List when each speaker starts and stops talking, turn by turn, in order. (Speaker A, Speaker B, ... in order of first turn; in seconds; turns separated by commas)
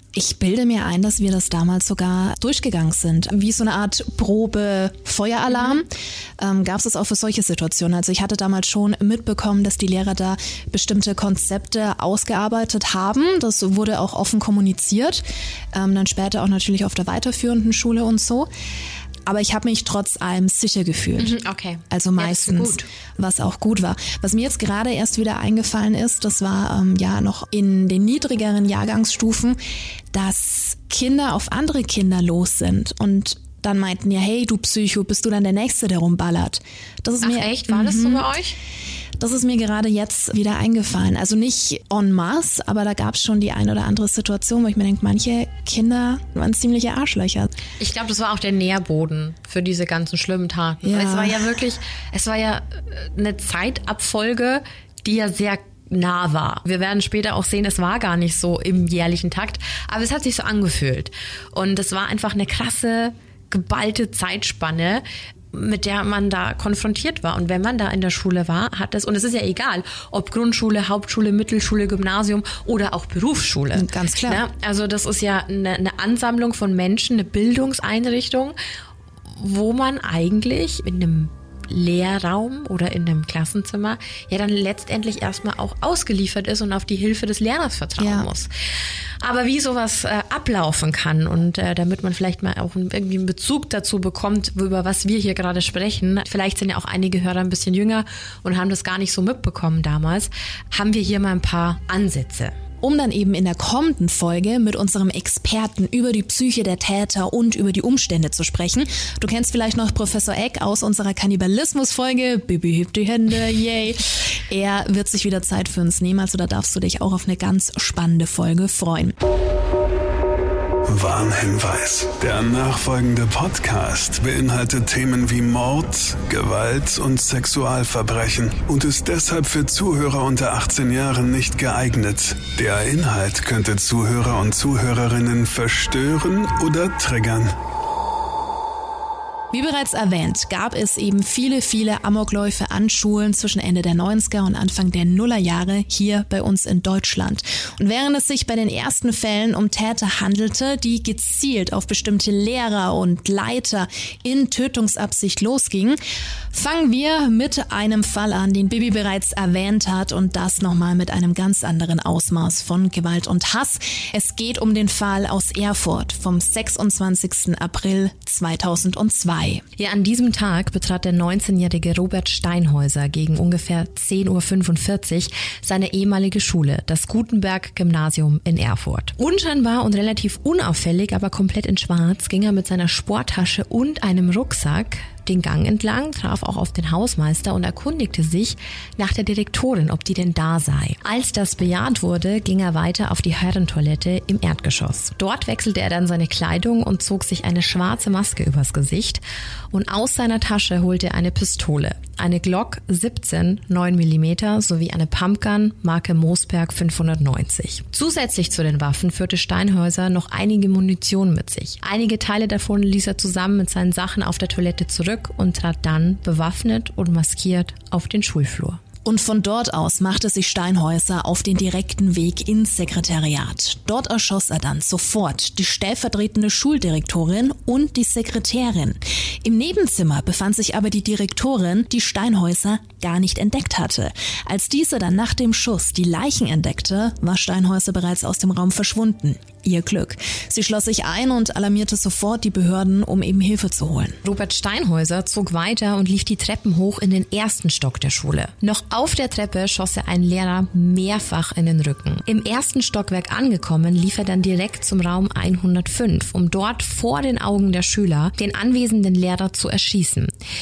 Speaker A: 0.1-18.5, Speaker B: 5.5-5.8, Speaker A: 19.2-21.4, Speaker B: 21.2-22.8, Speaker A: 21.9-29.6, Speaker A: 30.1-38.2, Speaker B: 37.2-38.5, Speaker A: 39.2-47.5, Speaker B: 47.8-78.5, Speaker A: 50.8-51.4, Speaker A: 73.7-74.4, Speaker B: 79.3-88.5, Speaker A: 88.0-88.3, Speaker B: 89.2-102.5, Speaker A: 102.8-119.2, Speaker C: 120.9-137.5, Speaker A: 139.5-156.0, Speaker A: 156.5-169.6, Speaker B: 169.8-218.8, Speaker A: 219.0-244.2, Speaker B: 244.2-260.3